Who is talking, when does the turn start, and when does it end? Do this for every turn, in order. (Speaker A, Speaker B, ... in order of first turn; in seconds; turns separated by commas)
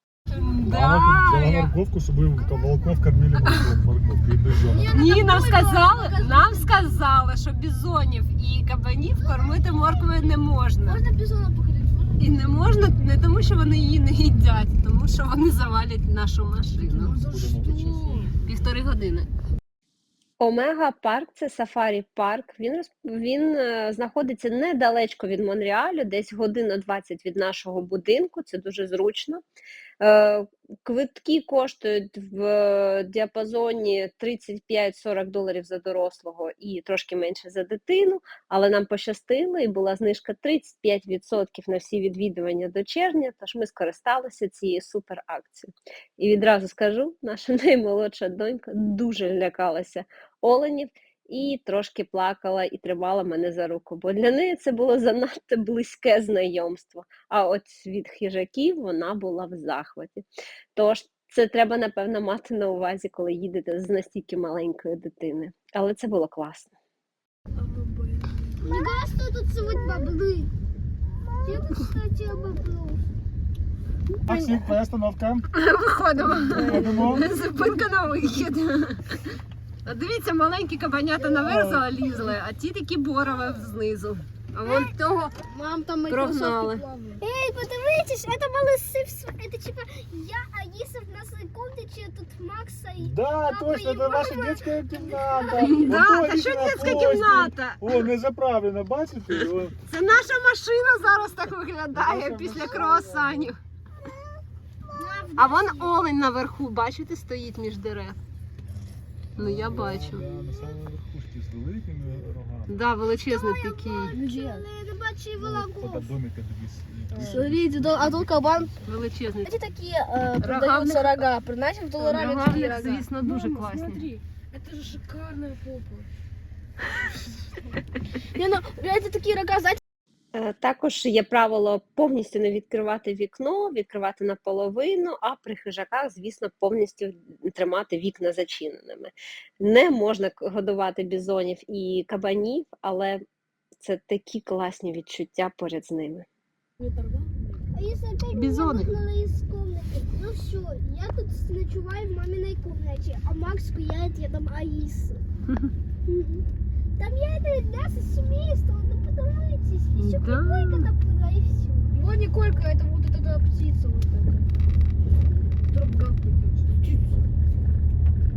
Speaker A: 0.3-1.7, Speaker B: 0.6-5.1, Speaker A: 3.4-3.7, Speaker C: 4.7-6.8, Speaker A: 4.9-11.1, Speaker D: 5.2-5.4, Speaker C: 11.1-12.3, Speaker A: 12.2-17.1, Speaker C: 16.8-18.3, Speaker B: 17.1-18.3, Speaker A: 18.4-19.3, Speaker E: 20.4-29.4, Speaker E: 30.0-66.7, Speaker C: 67.6-68.9, Speaker D: 68.6-70.5, Speaker D: 71.3-73.0, Speaker B: 74.2-75.5, Speaker A: 75.5-79.2, Speaker C: 76.5-77.2, Speaker B: 76.6-77.3, Speaker A: 79.8-85.3, Speaker B: 81.4-81.8, Speaker C: 85.5-87.2, Speaker A: 86.1-86.9, Speaker D: 87.2-95.7, Speaker B: 93.0-99.8, Speaker A: 95.6-98.0, Speaker A: 99.9-103.6, Speaker B: 101.9-103.5, Speaker D: 104.9-105.9, Speaker A: 105.4-108.2, Speaker B: 109.4-112.8, Speaker A: 109.4-110.3, Speaker A: 112.7-114.2, Speaker D: 113.3-116.1, Speaker C: 114.1-114.7, Speaker B: 115.4-118.8, Speaker C: 117.2-118.8, Speaker A: 118.8-119.7, Speaker C: 119.5-126.1, Speaker A: 120.4-121.3, Speaker A: 122.0-124.1, Speaker C: 128.3-129.8, Speaker E: 130.3-143.2, Speaker E: 143.8-146.3, Speaker C: 146.8-147.3, Speaker D: 147.7-155.2, Speaker A: 148.3-148.9, Speaker D: 156.1-156.4, Speaker D: 157.0-162.0, Speaker A: 160.0-160.9, Speaker C: 162.0-164.5, Speaker C: 165.7-167.1